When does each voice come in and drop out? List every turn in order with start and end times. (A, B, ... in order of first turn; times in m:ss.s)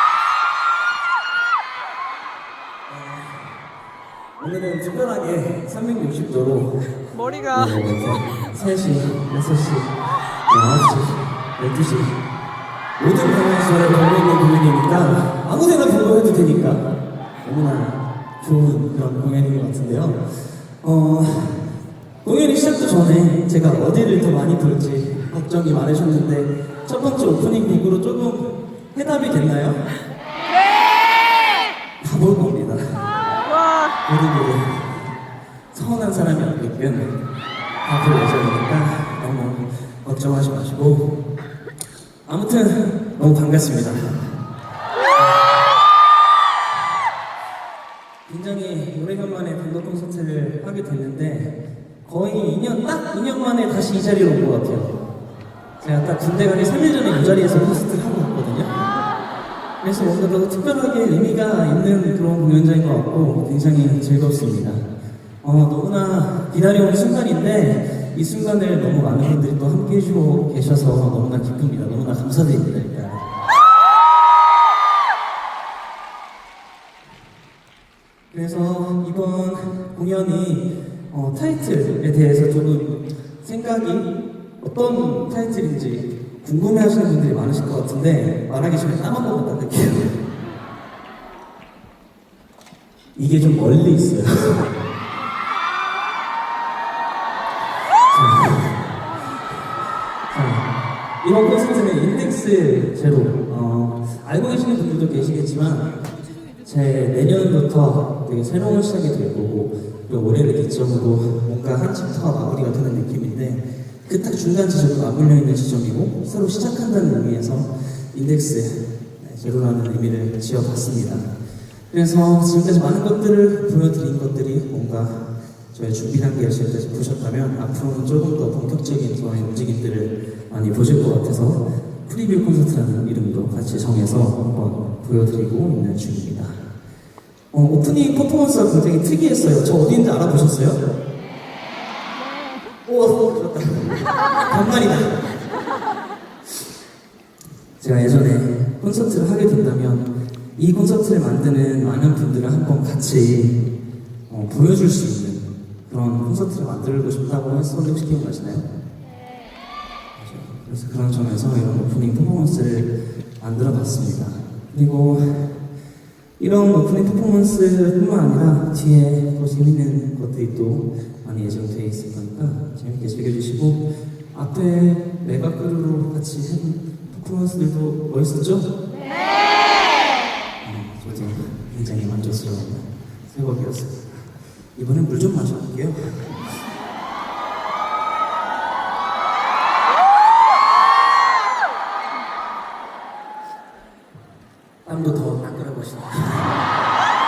0:02.9-0:03.6 A
0:04.4-0:06.8 A
0:07.4-0:09.9 A
0:10.5-0:12.2 A
0:13.0-0:16.9 A
0:17.4-0:29.8 A
0:32.0-0:33.1 A
0:34.0-0:35.1 A
0:35.7-0:37.2 A
0:37.8-0:41.1 A
0:42.2-0:44.0 A
0:45.1-0:45.6 A
0:48.2-0:55.0 A
0:55.8-0:58.8 A
0:59.8-1:04.8 A
1:05.4-1:13.3 A
1:18.3-1:30.2 A
1:33.1-1:34.7 A
1:38.1-1:38.9 A
1:40.3-1:40.7 A
1:41.2-1:46.0 A
1:46.6-2:01.3 A
2:01.9-2:16.6 A
2:17.5-2:20.8 A
2:22.8-2:25.3 A
2:27.8-2:33.6 A
2:34.3-2:38.7 A
2:40.2-2:45.5 A
2:46.4-2:58.7 A
3:00.6-3:06.5 A
3:14.8-3:16.6 A